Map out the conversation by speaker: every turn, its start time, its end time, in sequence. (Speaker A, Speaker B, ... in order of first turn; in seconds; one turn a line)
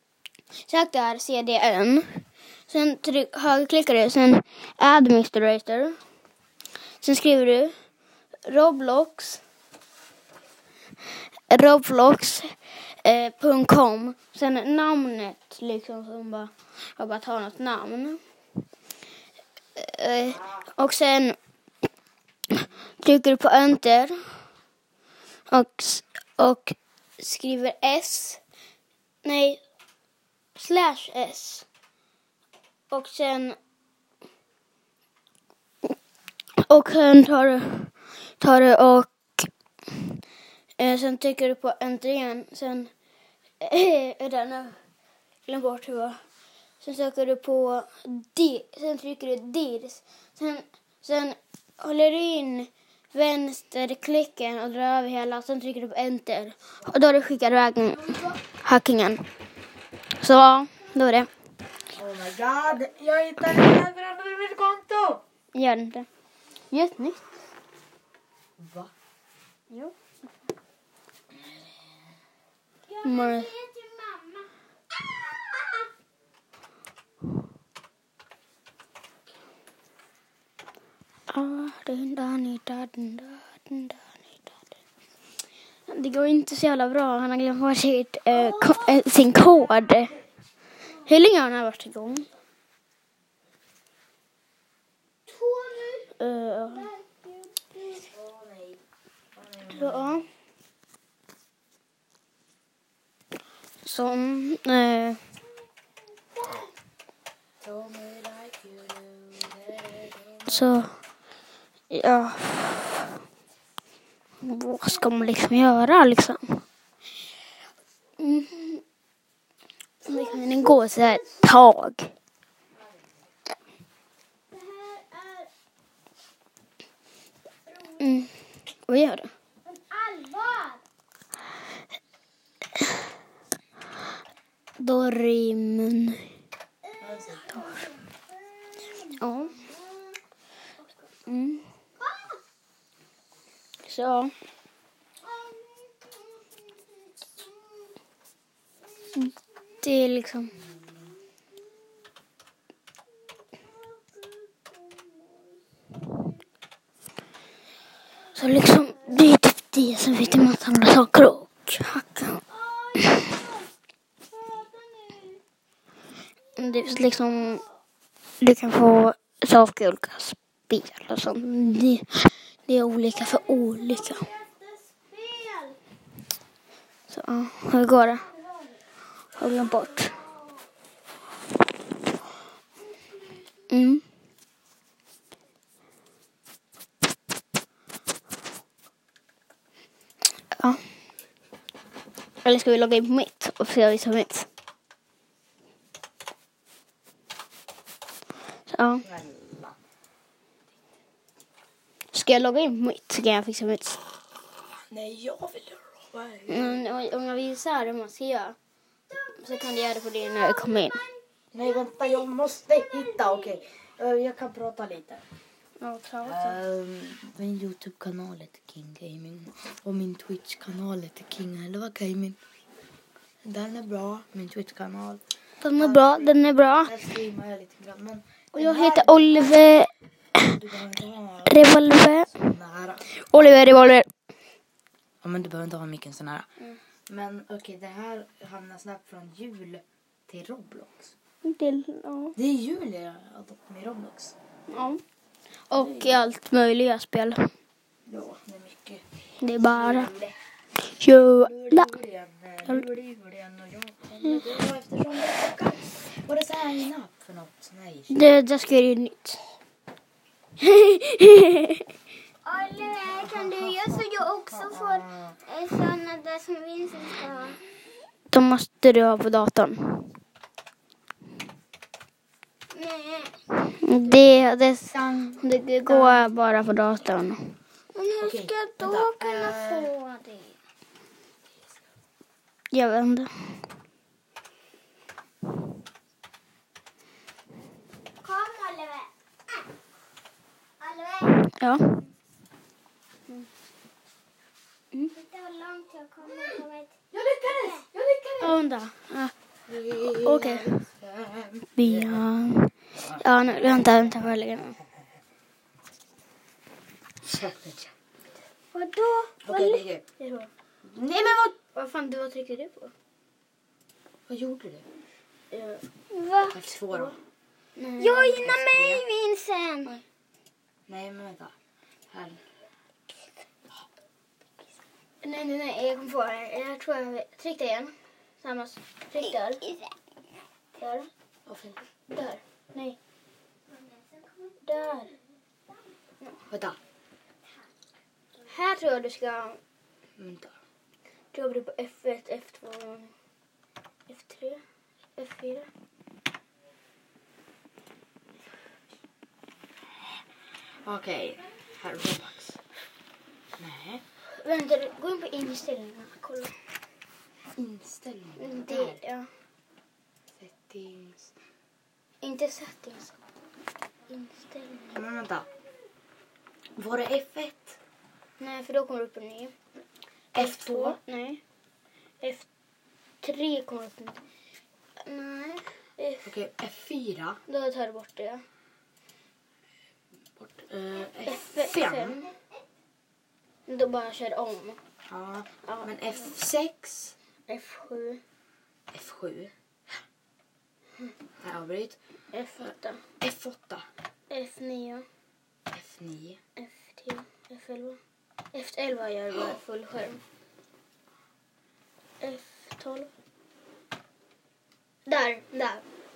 Speaker A: 0.7-6.0
Speaker A: 7.0-7.8
Speaker A: 8.4-9.4
Speaker A: 11.5-18.2
Speaker A: 19.8-21.4
Speaker A: 22.5-24.4
Speaker A: 25.5-28.4
Speaker A: 29.2-29.6
Speaker A: 30.6-31.7
Speaker A: 32.9-33.6
Speaker A: 36.6-40.2
Speaker A: 40.8-42.9
Speaker A: 43.6-44.8
Speaker A: 45.5-46.2
Speaker A: 46.8-59.3
Speaker B: 58.1-58.4
Speaker A: 60.2-61.3
Speaker B: 61.9-65.2
Speaker A: 65.5-66.1
Speaker A: 66.7-67.3
Speaker B: 68.6-68.9
Speaker A: 69.7-70.0
Speaker C: 72.9-74.5
Speaker A: 73.0-73.5
Speaker C: 75.4-75.8
Speaker A: 81.3-84.2
Speaker A: 85.9-90.2
Speaker B: 88.3-88.8
Speaker A: 91.0-92.3
Speaker B: 95.4-95.9
Speaker A: 96.2-96.9
Speaker C: 96.7-98.0
Speaker B: 98.0-98.8
Speaker B: 99.4-100.2
Speaker A: 99.7-100.3
Speaker A: 103.8-105.2
Speaker B: 107.6-110.6
Speaker A: 110.5-111.0
Speaker A: 111.9-113.1
Speaker A: 114.4-116.6
Speaker A: 118.2-118.8
Speaker A: 120.0-122.1
Speaker C: 120.1-121.4
Speaker C: 124.5-125.5
Speaker C: 127.7-128.0
Speaker A: 128.0-129.3
Speaker C: 129.7-130.8
Speaker A: 134.8-136.3
Speaker B: 137.0-137.5
Speaker C: 137.2-139.9
Speaker A: 139.2-139.6
Speaker A: 141.2-141.7
Speaker C: 142.0-142.4
Speaker A: 143.8-144.3
Speaker C: 145.2-146.8
Speaker A: 149.2-150.6
Speaker C: 153.8-154.4
Speaker A: 158.3-162.4
Speaker C: 162.6-163.6
Speaker A: 163.0-163.3
Speaker C: 164.4-165.3
Speaker A: 166.6-167.6
Speaker A: 168.4-174.3
Speaker C: 173.3-175.8
Speaker A: 177.1-178.3
Speaker A: 179.4-180.2
Speaker C: 179.7-180.5
Speaker A: 183.7-184.0
Speaker A: 190.5-190.8
Speaker A: 192.4-194.5
Speaker A: 198.7-199.1
Speaker B: 199.0-199.8
Speaker A: 202.1-204.0
Speaker B: 204.9-206.8
Speaker A: 206.5-208.6
Speaker C: 209.3-211.1
Speaker A: 209.4-211.0
Speaker B: 211.5-215.2
Speaker C: 211.6-213.6
Speaker A: 215.8-216.6
Speaker B: 216.2-222.4
Speaker B: 223.4-225.2
Speaker A: 225.6-227.1
Speaker B: 225.8-229.6
Speaker A: 228.5-230.6
Speaker B: 230.4-231.7
Speaker A: 231.5-232.5
Speaker B: 232.3-233.4
Speaker A: 233.2-234.1
Speaker B: 235.2-236.5
Speaker B: 237.1-241.1
Speaker A: 241.4-242.4
Speaker B: 242.4-244.3
Speaker A: 244.7-245.0
Speaker A: 245.7-247.5
Speaker B: 245.7-246.2
Speaker B: 248.1-249.0
Speaker A: 249.4-250.1
Speaker B: 249.6-250.3
Speaker A: 250.9-251.9
Speaker B: 251.3-258.2
Speaker A: 254.2-254.5
Speaker A: 258.1-259.4
Speaker A: 260.6-261.9
Speaker C: 262.5-267.6
Speaker B: 263.0-265.4
Speaker A: 263.2-264.4
Speaker A: 268.3-270.1
Speaker C: 272.8-273.3
Speaker A: 273.5-280.6
Speaker B: 274.9-276.3
Speaker B: 278.2-279.9
Speaker A: 282.7-283.6
Speaker C: 288.2-289.6
Speaker C: 290.8-291.4
Speaker A: 291.4-292.0
Speaker C: 295.1-296.9
Speaker B: 297.1-298.6
Speaker A: 298.4-299.3
Speaker B: 299.7-302.2
Speaker A: 300.0-300.8
Speaker A: 301.8-304.8
Speaker B: 303.0-303.2
Speaker B: 307.2-307.9
Speaker A: 308.8-310.5
Speaker C: 308.8-309.3
Speaker B: 309.4-310.0
Speaker B: 310.8-311.5
Speaker A: 311.2-312.9
Speaker B: 314.3-314.9
Speaker A: 315.5-317.1
Speaker C: 316.2-316.5
Speaker B: 316.5-317.2
Speaker A: 317.8-318.6
Speaker C: 318.0-319.9
Speaker B: 318.4-319.0
Speaker B: 320.9-321.5
Speaker B: 322.1-322.4
Speaker A: 325.2-329.6
Speaker A: 330.8-331.1
Speaker B: 331.5-331.8
Speaker A: 332.1-333.0
Speaker C: 333.7-335.1
Speaker A: 334.6-335.1
Speaker B: 336.5-336.8
Speaker A: 338.5-339.6
Speaker B: 340.2-340.5
Speaker A: 341.3-343.1
Speaker A: 344.1-344.6
Speaker A: 345.2-345.7
Speaker B: 350.9-352.6
Speaker B: 353.6-354.0
Speaker A: 354.3-356.6
Speaker B: 357.6-359.0
Speaker A: 358.4-359.3
Speaker B: 360.4-361.3
Speaker A: 362.2-363.2
Speaker A: 364.1-365.0
Speaker B: 364.9-365.5
Speaker B: 366.8-367.8
Speaker A: 368.4-369.6
Speaker B: 370.3-371.0
Speaker A: 370.3-371.4
Speaker A: 372.2-372.5
Speaker A: 373.2-374.2
Speaker A: 375.0-376.3
Speaker B: 376.2-377.4
Speaker A: 377.5-378.4
Speaker B: 380.4-382.3
Speaker A: 381.2-382.2
Speaker A: 383.7-384.8
Speaker B: 385.1-387.1
Speaker A: 385.7-385.9
Speaker A: 387.5-388.2
Speaker B: 388.9-389.5
Speaker B: 391.4-392.0
Speaker A: 392.3-393.1
Speaker B: 393.2-393.9
Speaker A: 394.3-395.1
Speaker B: 395.7-396.4
Speaker A: 396.6-398.0
Speaker A: 398.5-400.2
Speaker A: 402.2-403.1
Speaker A: 405.1-405.8